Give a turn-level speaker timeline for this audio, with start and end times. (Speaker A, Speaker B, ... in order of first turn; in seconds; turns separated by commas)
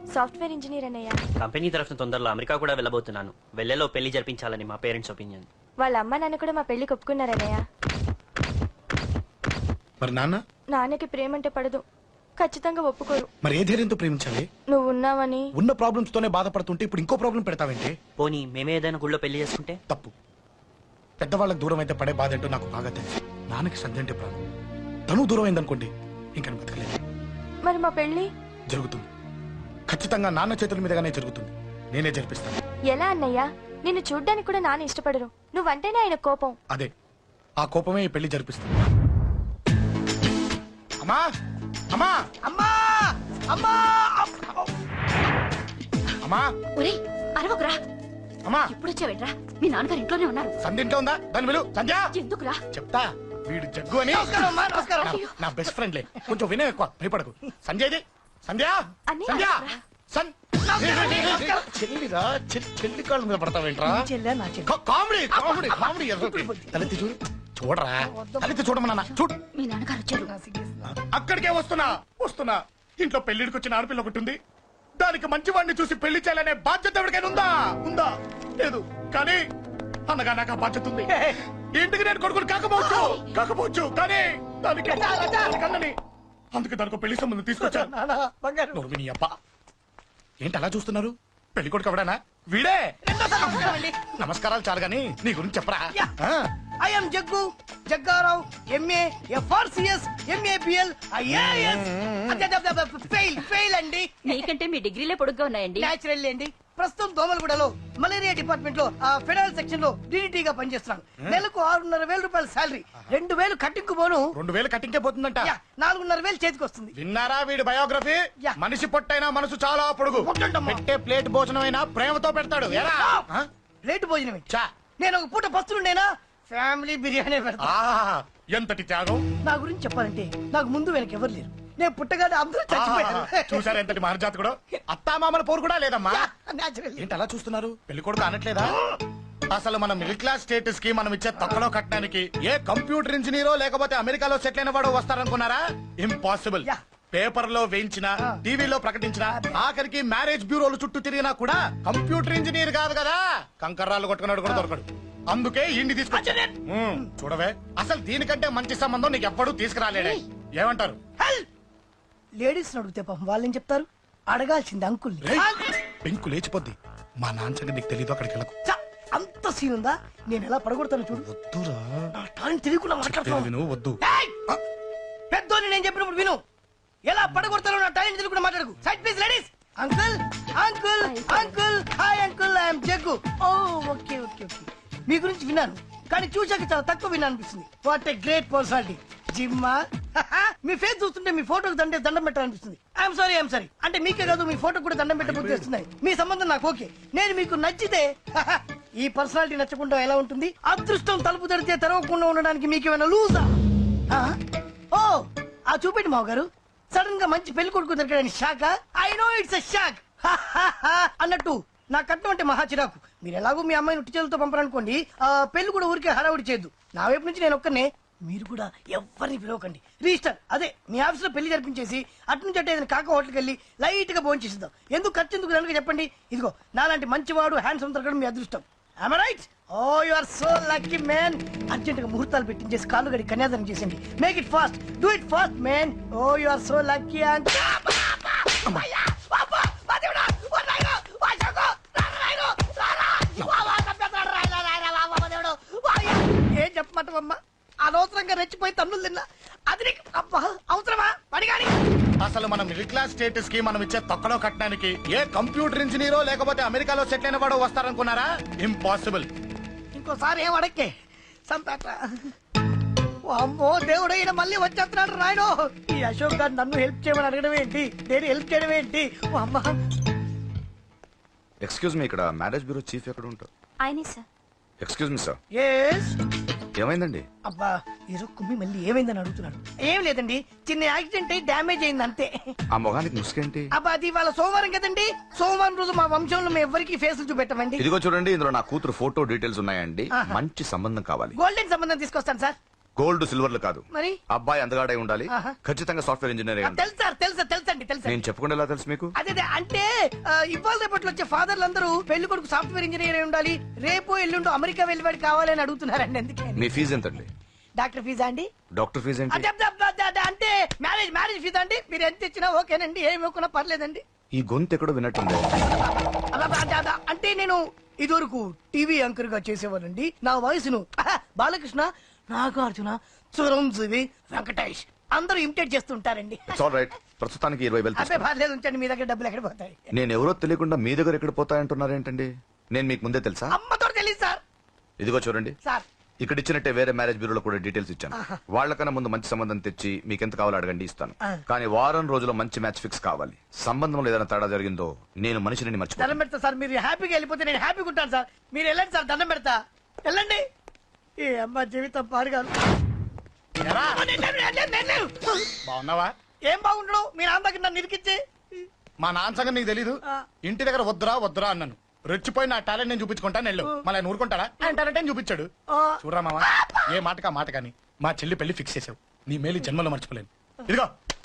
Speaker A: 0.1-1.2, Speaker B: 1.4-4.5, Speaker B: 5.1-5.5, Speaker A: 5.8-7.6, Speaker C: 10.0-10.4, Speaker A: 10.7-11.8, Speaker A: 12.4-13.3, Speaker C: 13.4-14.5, Speaker A: 14.7-15.5, Speaker C: 15.6-18.0, Speaker B: 18.2-19.6, Speaker C: 21.2-24.4, Speaker C: 25.1-27.0, Speaker A: 27.6-28.3, Speaker C: 28.7-29.1, Speaker C: 29.9-32.6, Speaker A: 32.9-36.6, Speaker C: 37.6-38.7, Speaker D: 42.4-44.7, Speaker C: 46.2-46.5, Speaker E: 46.8-47.8, Speaker C: 48.5-48.7, Speaker E: 48.6-50.5, Speaker C: 50.6-52.0, Speaker E: 52.1-52.6, Speaker C: 52.7-54.6, Speaker D: 54.1-55.3, Speaker E: 54.8-55.3, Speaker C: 55.2-64.0, Speaker A: 59.1-59.7, Speaker D: 60.6-61.7, Speaker D: 63.8-64.7, Speaker C: 64.7-69.3, Speaker D: 65.3-66.9, Speaker D: 68.0-68.7, Speaker E: 69.5-70.3, Speaker D: 70.1-70.9, Speaker C: 70.9-74.4, Speaker C: 75.0-79.4, Speaker C: 80.1-81.1, Speaker D: 81.1-81.4, Speaker C: 81.7-85.9, Speaker D: 82.9-83.2, Speaker D: 84.9-85.5, Speaker C: 86.5-87.9, Speaker D: 87.6-88.8, Speaker C: 88.7-89.3, Speaker C: 90.4-96.5, Speaker D: 93.0-94.0, Speaker D: 96.8-104.5, Speaker E: 104.2-105.9, Speaker D: 105.8-114.3, Speaker C: 114.4-115.5, Speaker D: 115.4-116.9, Speaker C: 117.0-123.5, Speaker D: 120.2-120.8, Speaker D: 122.7-123.3, Speaker D: 123.8-124.5, Speaker D: 125.0-127.7, Speaker C: 127.6-129.2, Speaker D: 129.4-133.8, Speaker C: 132.7-136.3, Speaker D: 136.1-137.2, Speaker C: 137.0-138.8, Speaker C: 139.5-161.0, Speaker D: 149.3-149.6, Speaker D: 156.1-157.1, Speaker D: 161.2-161.5, Speaker D: 162.4-165.7, Speaker C: 165.2-165.5, Speaker C: 166.0-168.5, Speaker D: 168.7-171.3, Speaker C: 171.1-172.1, Speaker D: 172.1-174.4, Speaker C: 173.0-174.0, Speaker D: 175.3-176.4, Speaker D: 177.1-203.5, Speaker E: 181.1-181.5, Speaker C: 195.2-195.6, Speaker D: 204.1-204.4, Speaker D: 204.9-251.7, Speaker C: 252.2-259.3, Speaker D: 259.9-260.9, Speaker D: 261.5-262.0, Speaker D: 263.3-269.8, Speaker F: 271.6-273.5, Speaker E: 273.8-274.2, Speaker F: 274.8-275.4, Speaker D: 275.5-276.2, Speaker F: 276.8-277.2, Speaker D: 277.4-282.3, Speaker F: 282.7-283.7, Speaker D: 283.7-287.9, Speaker F: 287.8-291.4, Speaker D: 290.1-290.4, Speaker D: 291.4-292.6, Speaker F: 293.0-296.8, Speaker D: 293.9-294.2, Speaker D: 295.3-295.6, Speaker D: 296.6-298.2, Speaker F: 298.1-299.1, Speaker D: 299.2-306.7, Speaker F: 306.6-307.3, Speaker D: 307.8-308.5, Speaker F: 308.8-309.5, Speaker D: 309.3-314.0, Speaker F: 314.3-315.5, Speaker D: 315.6-326.6, Speaker F: 326.5-328.3, Speaker D: 328.0-329.9, Speaker F: 329.9-333.6, Speaker D: 333.5-334.4, Speaker F: 335.0-335.6, Speaker F: 336.2-346.2, Speaker D: 338.1-338.4, Speaker D: 346.0-350.4, Speaker D: 351.2-352.6, Speaker C: 353.6-354.0, Speaker D: 354.0-355.6, Speaker C: 355.6-356.1, Speaker D: 356.5-358.2, Speaker C: 359.0-365.5, Speaker D: 365.7-366.8, Speaker C: 366.0-370.9